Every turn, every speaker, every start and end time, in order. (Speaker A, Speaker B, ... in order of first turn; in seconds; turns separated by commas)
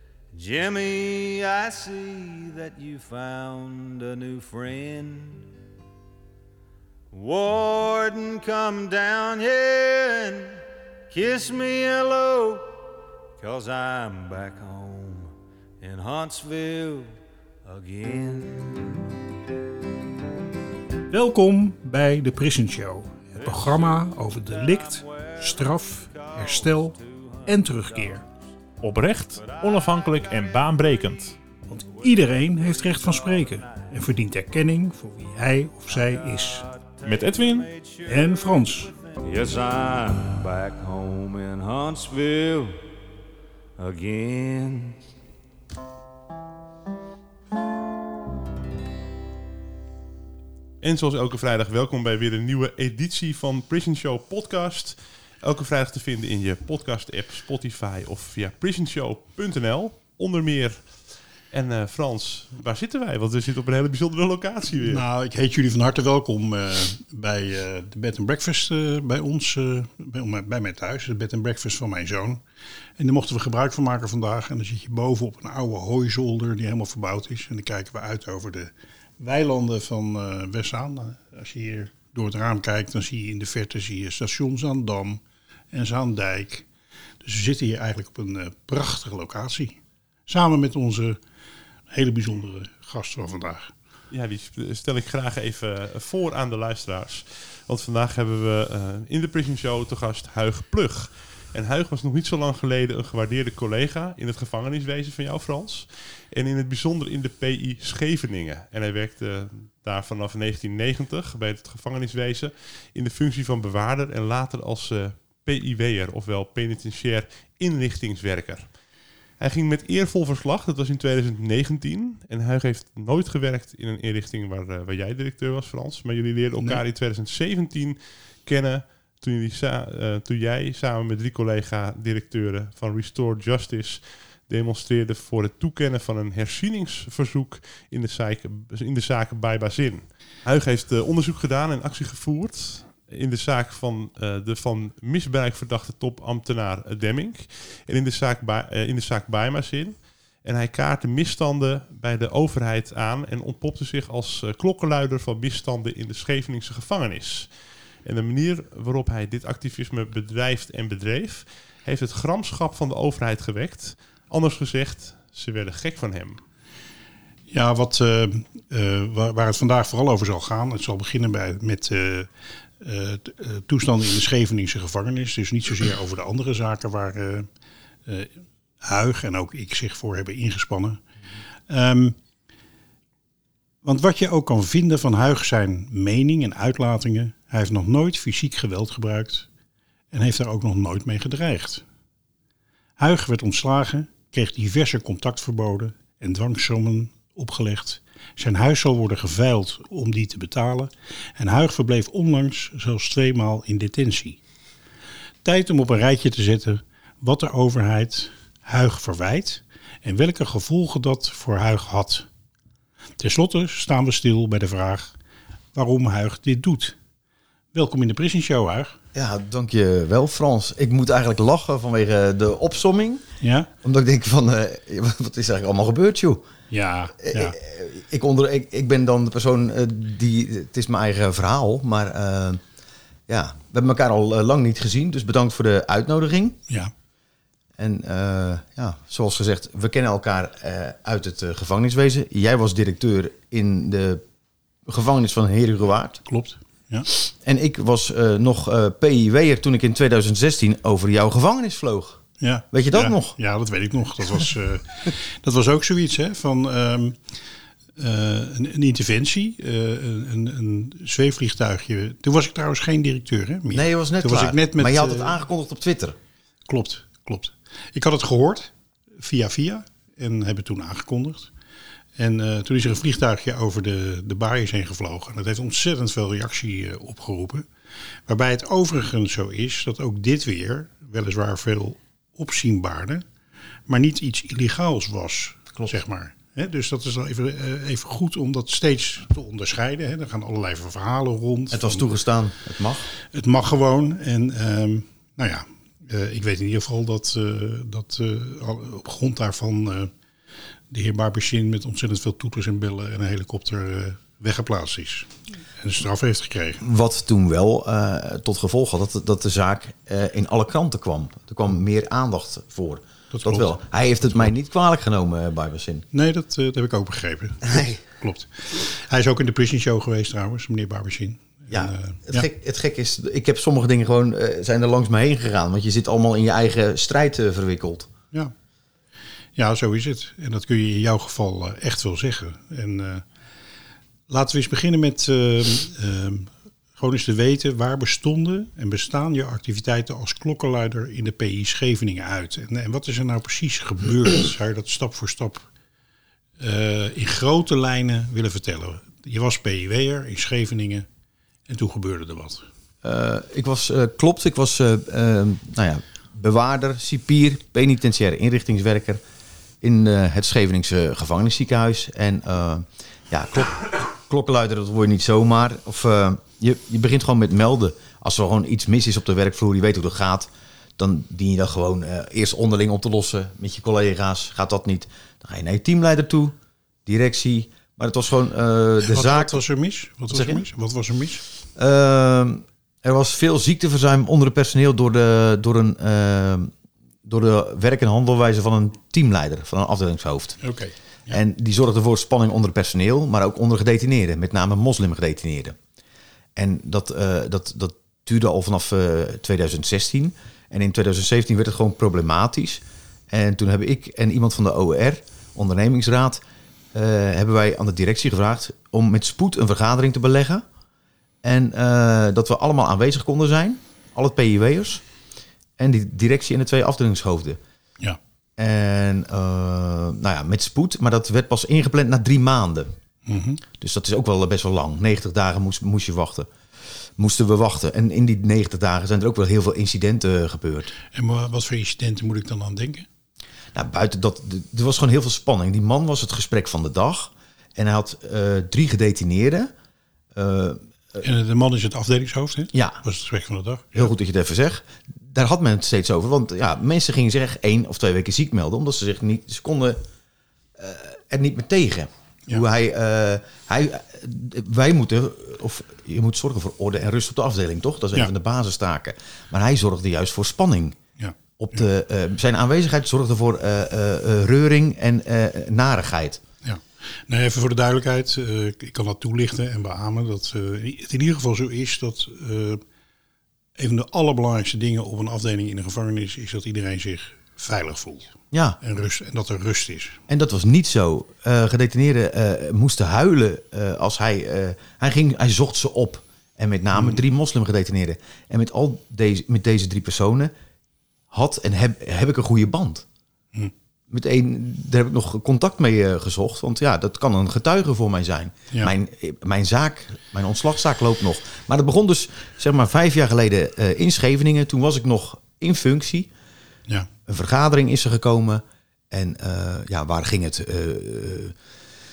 Speaker A: 0.3-5.5, Speaker A: 7.1-10.6, Speaker A: 11.1-12.7, Speaker A: 13.4-19.0, Speaker B: 21.1-28.2, Speaker A: 23.4-23.9, Speaker A: 24.4-28.2, Speaker C: 28.8-31.4, Speaker B: 31.7-36.7, Speaker A: 32.0-33.9, Speaker A: 35.9-42.8, Speaker C: 37.0-37.7, Speaker B: 38.0-38.9, Speaker A: 43.8-45.0, Speaker D: 50.8-65.0, Speaker B: 64.7-72.4, Speaker B: 73.0-86.7, Speaker B: 87.2-91.2, Speaker B: 91.9-93.7, Speaker D: 94.1-118.8, Speaker D: 119.4-166.4, Speaker B: 167.5-177.5, Speaker B: 178.1-181.0, Speaker B: 181.7-182.2, Speaker B: 183.8-189.5, Speaker B: 190.1-191.8, Speaker B: 193.0-204.4, Speaker B: 205.4-212.3, Speaker B: 213.2-215.1, Speaker B: 215.7-216.9, Speaker B: 217.7-219.0, Speaker E: 219.1-223.2, Speaker B: 223.4-223.7, Speaker E: 223.8-226.4, Speaker B: 226.7-227.6, Speaker E: 227.2-232.6, Speaker E: 233.3-236.6, Speaker E: 237.8-244.2, Speaker E: 244.8-246.2, Speaker B: 246.3-247.1, Speaker E: 247.1-252.2, Speaker B: 252.4-257.3, Speaker E: 252.7-253.3, Speaker B: 258.0-265.4, Speaker E: 263.7-266.2, Speaker B: 266.7-271.5, Speaker B: 272.2-277.7, Speaker B: 278.3-283.2, Speaker B: 283.9-292.1, Speaker E: 291.7-293.1, Speaker B: 293.3-300.1, Speaker B: 300.9-306.8, Speaker E: 306.8-316.0, Speaker B: 313.3-313.7, Speaker B: 316.1-322.5, Speaker E: 317.6-318.0, Speaker E: 321.7-328.1, Speaker B: 329.5-333.2, Speaker B: 334.3-345.7, Speaker B: 346.6-351.1, Speaker B: 351.7-352.6, Speaker E: 353.0-359.2, Speaker E: 359.8-376.5, Speaker E: 377.1-379.6, Speaker B: 379.1-381.4, Speaker E: 380.3-380.6, Speaker E: 381.8-386.7, Speaker E: 387.2-390.6, Speaker B: 390.6-391.4, Speaker E: 391.3-395.8, Speaker E: 396.6-406.4, Speaker E: 406.9-410.6, Speaker E: 411.4-415.0, Speaker E: 415.8-417.6, Speaker E: 418.6-422.9, Speaker B: 423.2-423.6, Speaker E: 423.8-426.5, Speaker E: 427.2-430.9, Speaker B: 431.1-433.1, Speaker E: 433.7-439.7, Speaker E: 440.3-441.2, Speaker B: 441.2-444.1, Speaker E: 442.7-443.0, Speaker E: 443.9-450.0, Speaker E: 450.8-461.0, Speaker B: 461.2-461.8, Speaker E: 461.6-466.4, Speaker B: 466.6-472.8, Speaker B: 473.8-480.2, Speaker E: 478.5-478.8, Speaker E: 480.3-490.5, Speaker B: 486.9-487.2, Speaker E: 491.3-493.1, Speaker E: 494.1-506.3, Speaker E: 507.3-511.5